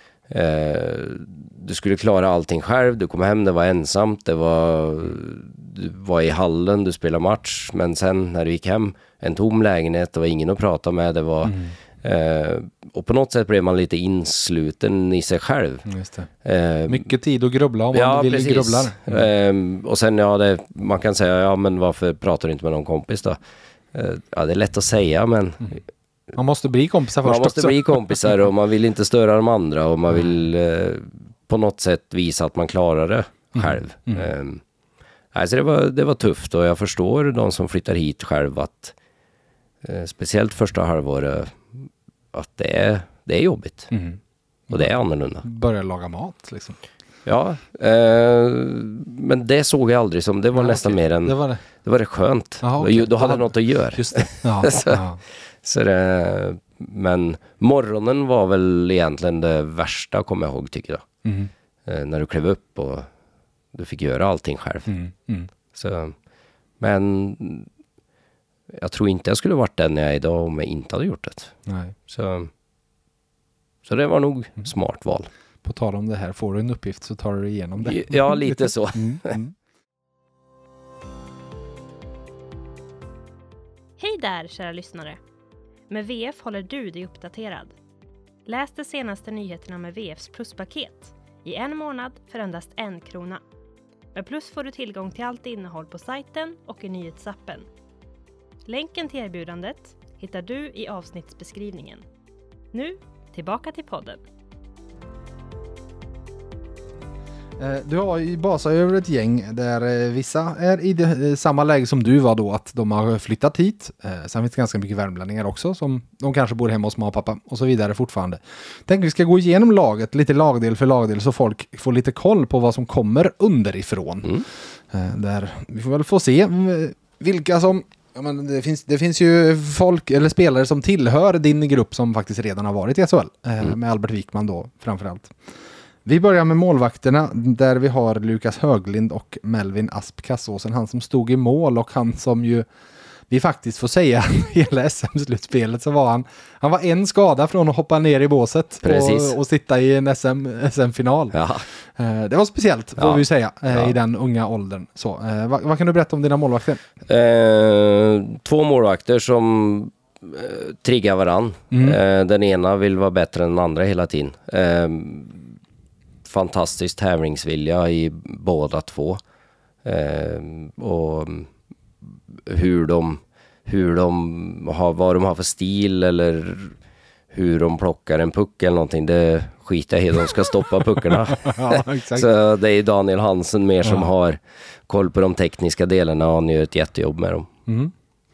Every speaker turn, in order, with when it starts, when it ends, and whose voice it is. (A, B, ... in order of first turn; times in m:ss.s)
0:00.3-0:15.8 A
0:11.4-0:11.7 B
0:15.8-0:16.3 B
0:16.4-0:17.1 A
0:16.9-0:19.2 B
0:17.9-0:23.4 A
0:23.9-0:25.8 A
0:26.3-0:27.8 B
0:27.2-0:34.6 A
0:33.5-0:34.3 B
0:35.3-0:38.9 A
0:39.8-0:43.9 A
0:43.9-0:44.9 B
0:44.7-0:45.4 A
0:45.4-0:46.8 B
0:47.2-0:55.0 A
0:50.5-0:51.6 B
0:52.6-0:55.2 B
0:55.6-1:01.0 A
1:01.2-1:01.5 B
1:01.8-1:03.1 A
1:03.7-1:04.9 A
1:04.9-1:05.5 B
1:05.7-1:06.2 A
1:06.8-1:07.7 A
1:08.7-1:11.5 A
1:11.6-1:11.9 B
1:12.1-1:12.5 A
1:13.8-1:15.3 A
1:15.6-1:19.5 B
1:17.8-1:19.4 A
1:24.0-1:25.2 C
1:25.9-1:27.7 C
1:28.4-1:33.4 C
1:34.1-1:37.6 C
1:38.6-1:42.0 C
1:42.7-1:44.2 C
1:47.6-2:15.3 B
2:16.0-2:22.7 B
2:23.3-2:31.4 B
2:28.8-2:29.4 A
2:31.3-2:31.6 A
2:32.0-2:36.8 B
2:33.0-2:33.9 A
2:37.1-2:45.5 A
2:41.7-2:42.0 B
2:46.2-2:49.2 A
2:49.8-2:51.5 A
2:52.3-2:56.7 A
2:57.3-3:07.5 A
3:01.3-3:02.3 B
3:07.7-3:07.9 B